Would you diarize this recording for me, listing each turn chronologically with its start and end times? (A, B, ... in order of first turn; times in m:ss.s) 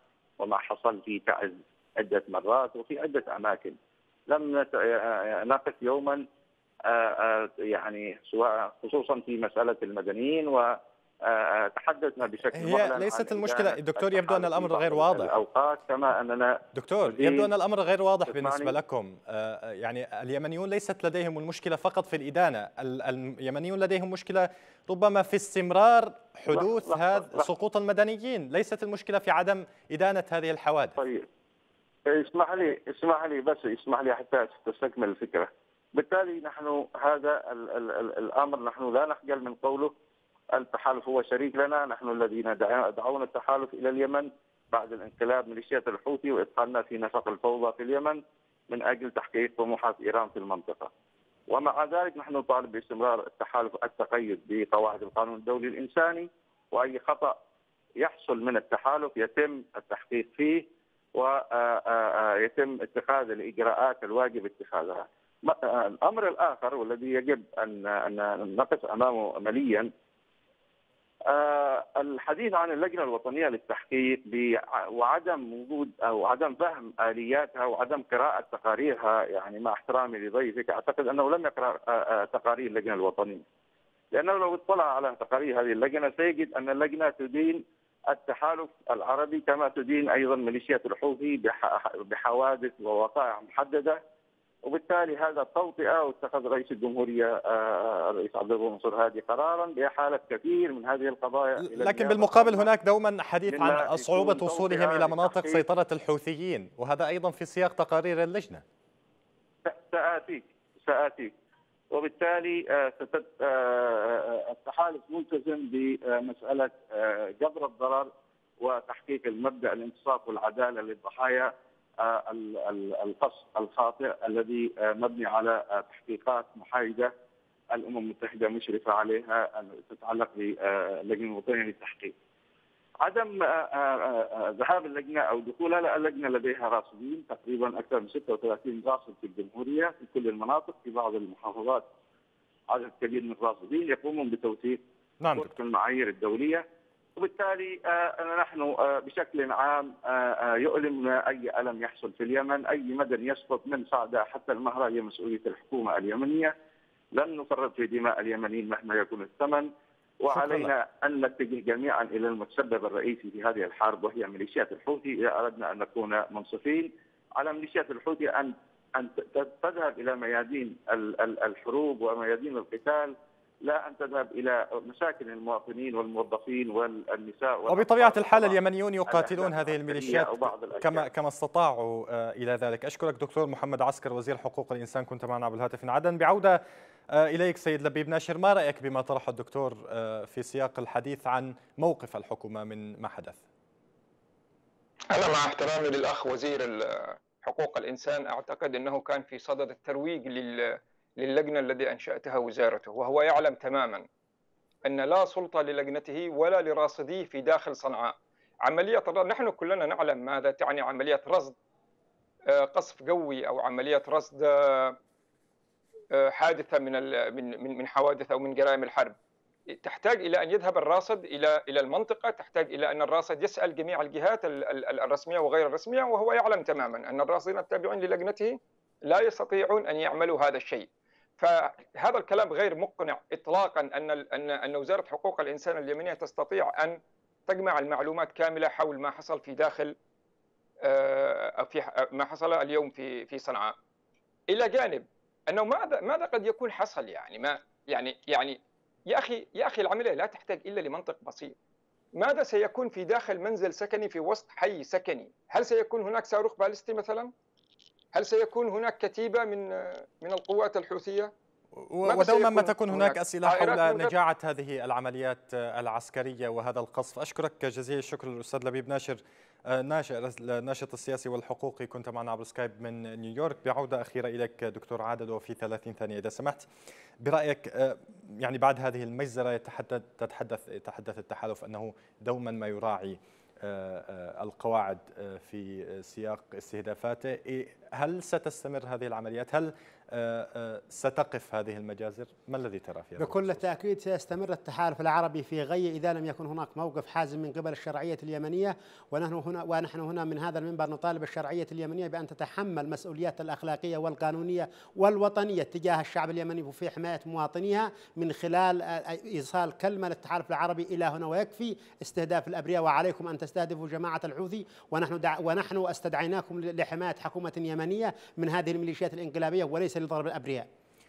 0:00.4-0:03.8 A
0:04.3-0:06.2 A
0:06.9-0:17.5 A
0:12.5-0:15.4 B
0:16.7-0:31.0 B
0:18.3-0:18.7 A
0:26.5-0:27.5 A
0:31.0-0:31.3 A
0:32.1-0:39.9 A
0:40.5-0:50.9 A
0:51.5-0:57.4 A
0:58.0-1:00.6 A
1:01.2-1:09.9 A
1:11.3-1:23.4 A
1:24.1-1:34.0 A
1:34.6-1:42.7 A
1:41.6-1:48.6 B
1:43.5-1:45.6 A
1:49.6-1:51.3 A
1:51.9-2:07.1 A
2:07.7-2:12.1 A
2:13.0-2:21.9 A
2:22.7-2:24.8 A
2:25.2-2:25.5 B
2:25.4-2:26.6 A
2:27.2-2:36.5 A
2:37.1-2:39.7 A
2:40.2-3:01.1 A
2:57.7-3:06.6 B
3:07.1-3:13.4 B
3:15.1-3:24.1 C
3:24.8-3:31.6 C
3:32.5-3:35.0 C
3:36.1-3:39.2 C
3:39.7-4:00.0 C
4:00.8-4:03.8 C
4:04.5-4:11.6 C
4:12.2-4:17.3 C
4:18.1-4:21.3 C
4:21.8-4:36.6 B
4:22.1-4:24.1 C
4:37.2-4:53.6 B
4:53.2-5:20.7 D